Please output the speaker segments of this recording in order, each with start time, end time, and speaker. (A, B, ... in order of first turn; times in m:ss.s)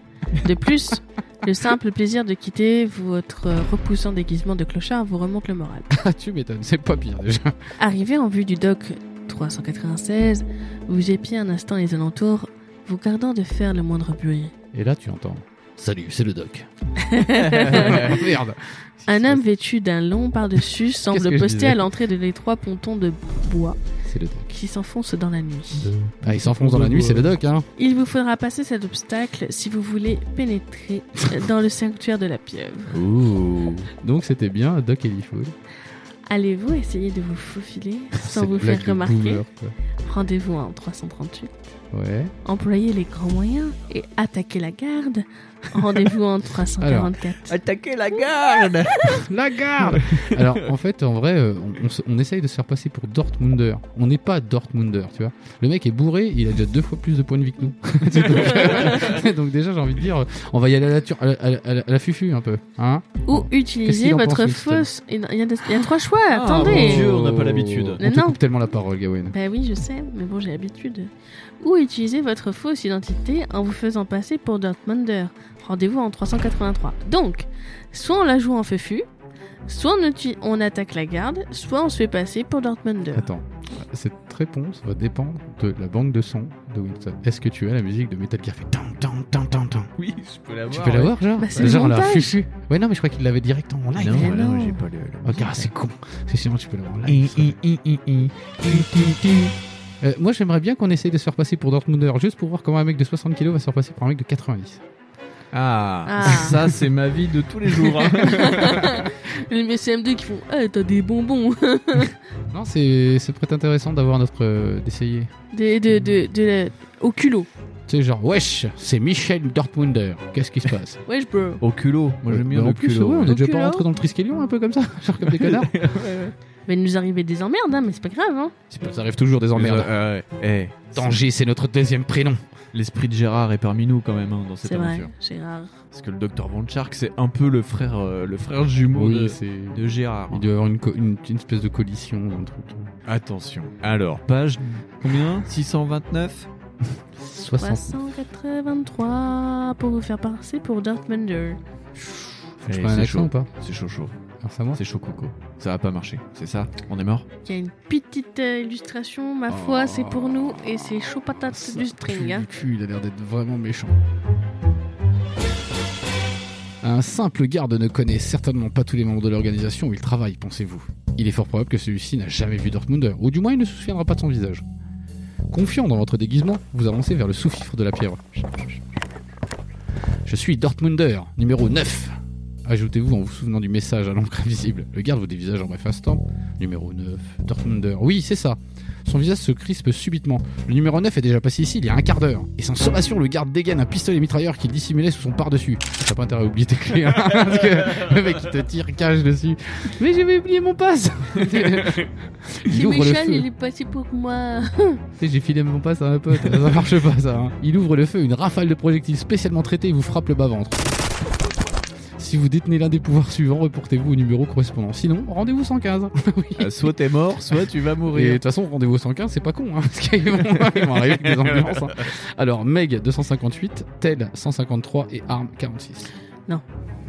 0:00.4-0:05.9 A
0:05.9-0:07.7 B
0:07.8-0:14.5 A
0:14.7-0:16.7 B
0:17.0-0:18.2 A
0:17.4-0:18.2 C
0:17.6-0:19.4 B
0:19.1-0:23.8 A
0:21.1-0:21.8 B
0:24.0-0:24.5 B
0:24.5-0:25.9 A
0:25.8-0:27.3 C
0:26.2-0:27.7 B
0:27.8-0:33.0 A
0:32.9-0:35.5 B
0:33.2-0:33.7 C
0:36.3-0:39.4 A
0:38.1-0:39.7 B
0:40.0-0:41.7 A
0:41.9-0:42.3 B
0:42.4-0:47.5 A
0:46.8-0:47.1 B
0:47.5-0:49.2 C
0:49.0-1:04.9 B
0:49.8-0:50.6 C
0:58.1-0:59.2 C
0:58.2-0:59.1 A
1:03.3-1:07.2 A
1:06.3-1:08.0 C
1:06.6-1:09.3 B
1:08.0-1:08.4 A
1:09.3-1:19.0 A
1:19.6-1:23.3 A
1:23.1-1:29.9 B
1:30.0-1:31.8 C
1:30.7-1:34.4 B
1:31.4-1:32.4 A
1:34.0-1:35.7 C
1:34.1-1:34.8 A
1:35.2-1:37.6 B
1:37.0-1:39.5 C
1:38.6-1:39.2 B
1:40.0-1:44.8 B
1:45.5-1:49.0 C
1:46.0-1:46.6 A
1:48.2-1:52.1 A
1:52.5-1:55.3 B
1:55.5-1:57.5 A
1:57.9-2:01.0 B
2:01.1-2:01.6 A
2:01.6-2:03.3 C
2:02.3-2:05.7 B
2:03.2-2:03.8 A
2:05.3-2:06.3 C
2:06.6-2:08.5 A
2:08.7-2:09.9 B
2:09.5-2:11.2 C
2:10.9-2:12.4 B
2:12.7-2:15.1 C
2:14.6-2:15.7 A
2:15.9-2:20.4 C
2:18.9-2:22.9 B
2:23.0-2:26.5 C
2:27.2-2:28.0 B
2:27.4-2:31.6 A
2:32.6-2:33.5 B
2:32.6-2:34.1 C
2:34.4-2:34.8 B
2:34.8-2:37.3 C
2:37.4-2:42.5 A
2:39.5-2:40.6 B
2:41.5-2:43.9 B
2:46.8-2:54.6 B
2:55.5-2:58.4 B
3:00.2-3:23.4 B
3:22.7-3:25.0 A
3:25.2-3:31.1 B
3:32.2-3:36.9 B
3:36.6-3:38.4 C
3:38.1-3:46.1 B
3:41.3-3:41.8 C